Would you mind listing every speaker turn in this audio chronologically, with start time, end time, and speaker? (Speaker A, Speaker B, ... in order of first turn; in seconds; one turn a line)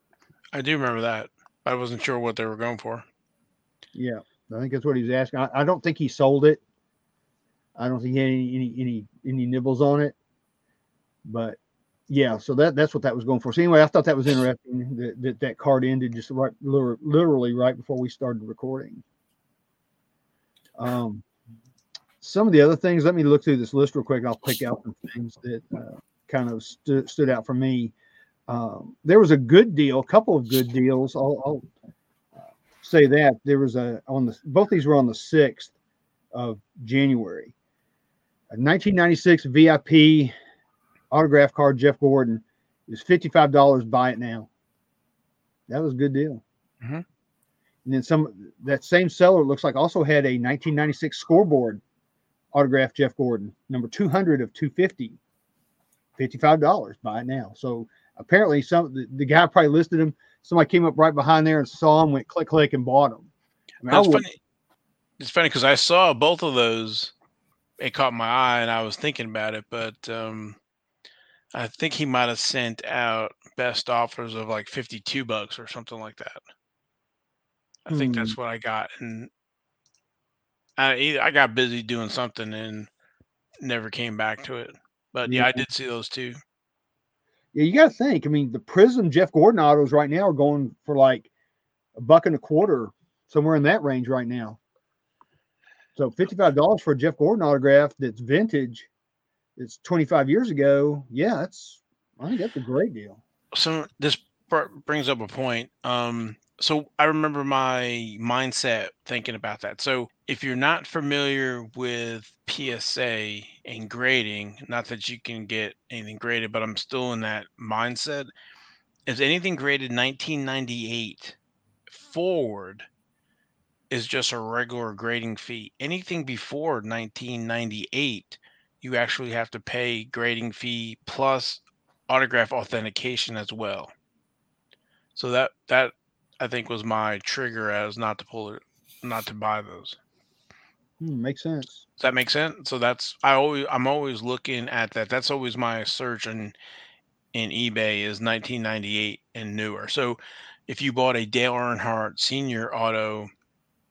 Speaker A: 0.5-3.0
Speaker B: 3.9-6.6
Speaker B: 7.8-10.2
Speaker B: 11.2-11.6
Speaker B: 12.1-19.0
Speaker B: 20.8-21.2
Speaker B: 22.2-27.9
Speaker B: 28.5-31.7
Speaker B: 32.4-35.7
Speaker B: 36.3-37.5
Speaker B: 38.5-40.3
Speaker B: 41.1-44.5
Speaker B: 45.7-46.4
Speaker B: 47.9-51.8
Speaker B: 52.5-55.2
Speaker B: 56.2-63.3
Speaker B: 63.8-64.2
Speaker A: 63.9-64.4
Speaker A: 65.2-67.1
Speaker A: 67.8-70.6
Speaker A: 71.5-76.4
Speaker A: 77.9-79.3
Speaker B: 77.9-78.4
Speaker A: 80.8-82.9
Speaker A: 83.6-86.4
Speaker B: 85.3-85.7
Speaker B: 87.5-91.3
Speaker B: 92.0-94.6
Speaker B: 96.0-98.9
Speaker B: 99.6-103.2
Speaker A: 103.5-118.3
Speaker A: 119.1-121.4
Speaker A: 121.9-122.9
Speaker A: 123.9-133.9
Speaker A: 135.2-140.0
Speaker B: 141.0-141.8
Speaker A: 142.0-146.6
Speaker A: 147.3-153.3